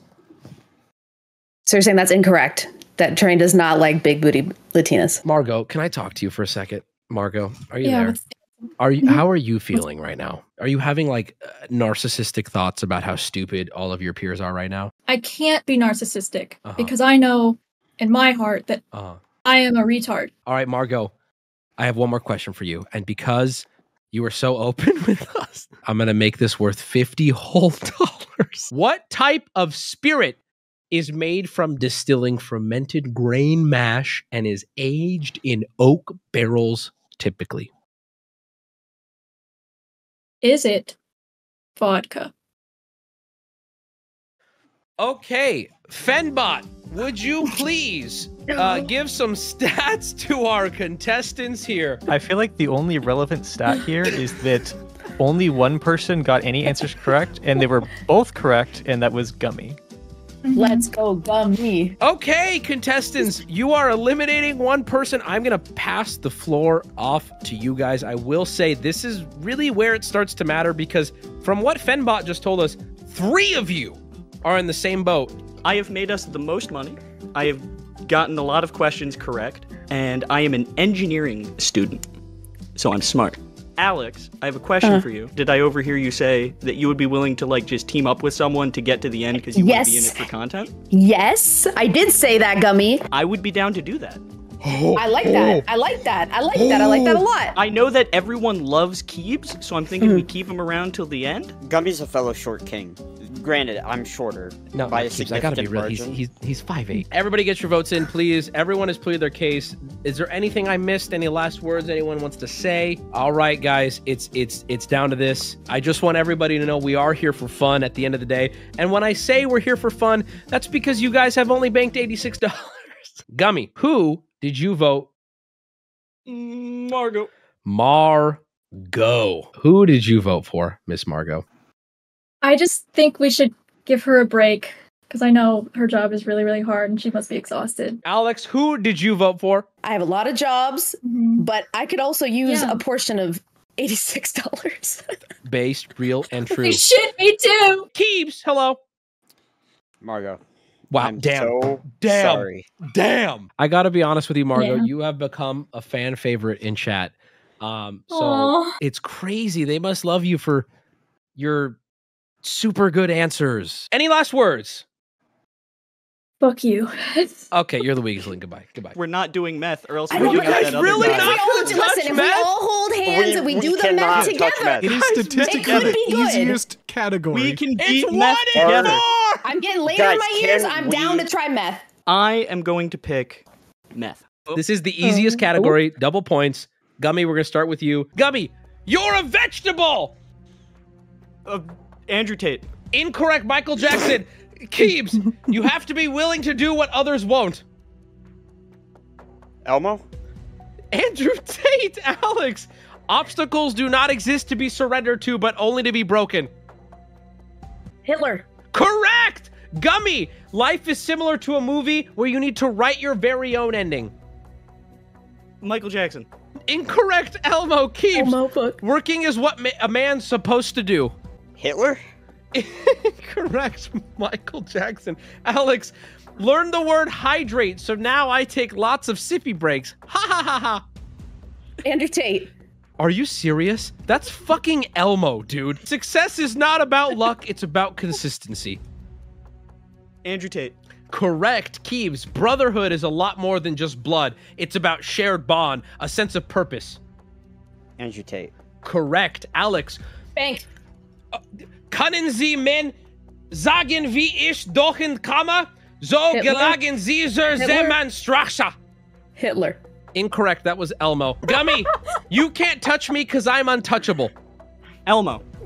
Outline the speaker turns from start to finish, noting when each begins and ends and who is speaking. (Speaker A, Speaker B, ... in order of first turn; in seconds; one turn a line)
Speaker A: 1.6-5.2
Speaker B: 5.2-8.2
Speaker C: 7.8-8.2
Speaker B: 8.8-14.9
Speaker C: 15.1-18.8
Speaker B: 16.6-16.9
Speaker B: 18.9-19.2
Speaker C: 19.4-20.3
Speaker B: 20.4-21.1
Speaker B: 21.8-30.4
Speaker B: 30.9-37.7
Speaker C: 40.4-41.0
Speaker C: 41.8-42.3
Speaker B: 45.0-52.0
Speaker D: 52.1-59.8
Speaker C: 60.4-60.9
Speaker A: 60.5-62.0
Speaker B: 62.0-75.3
Speaker E: 75.6-82.0
Speaker E: 82.8-90.7
Speaker A: 89.3-90.3
Speaker A: 90.9-93.0
Speaker E: 93.1-94.2
Speaker B: 94.6-95.6
Speaker A: 94.9-97.6
Speaker B: 96.5-97.2
Speaker E: 97.5-101.5
Speaker A: 100.0-100.3
Speaker F: 101.6-106.2
Speaker B: 104.7-125.1
Speaker E: 126.3-127.3
Speaker B: 127.6-131.4
Speaker C: 132.4-138.0
Speaker B: 138.0-139.7
Speaker A: 139.8-145.0
Speaker C: 141.0-141.4
Speaker C: 142.4-142.8
Speaker B: 145.4-146.9
Speaker C: 146.6-147.8
Speaker B: 147.9-148.8
Speaker F: 150.0-150.4
Speaker B: 150.9-160.7
Speaker F: 150.9-152.7
Speaker C: 154.5-154.9
Speaker C: 158.1-158.8
Speaker B: 161.4-161.8
Speaker B: 162.4-164.8
Speaker C: 166.4-167.5
Speaker B: 167.5-169.0
Speaker E: 168.9-171.4
Speaker A: 170.1-176.6
Speaker B: 170.1-172.5
Speaker F: 170.2-171.4
Speaker F: 173.0-175.1
Speaker G: 174.8-177.6
Speaker E: 175.2-176.0
Speaker E: 177.3-179.0
Speaker B: 177.8-179.4
Speaker F: 178.5-179.0
Speaker A: 179.4-181.8
Speaker F: 179.9-181.3
Speaker E: 182.1-183.4
Speaker E: 183.9-184.6
Speaker B: 184.5-190.1
Speaker A: 185.0-185.8
Speaker E: 191.4-192.7
Speaker B: 192.9-197.6
Speaker F: 199.6-200.0
Speaker B: 200.9-206.5
Speaker A: 208.0-208.4
Speaker B: 208.7-214.1
Speaker E: 215.6-216.3
Speaker B: 216.7-221.1
Speaker A: 218.1-218.8
Speaker F: 221.6-222.0
Speaker B: 222.5-230.8
Speaker A: 231.8-232.5
Speaker B: 233.0-238.8
Speaker E: 240.2-240.7
Speaker B: 241.1-247.0
Speaker F: 248.0-248.5
Speaker B: 248.8-250.0
Speaker A: 250.3-250.6
Speaker B: 251.9-252.9
Speaker B: 253.5-258.7
Speaker A: 256.3-256.8
Speaker A: 257.6-258.0
Speaker A: 259.4-259.8
Speaker B: 260.1-264.3
Speaker E: 265.1-265.4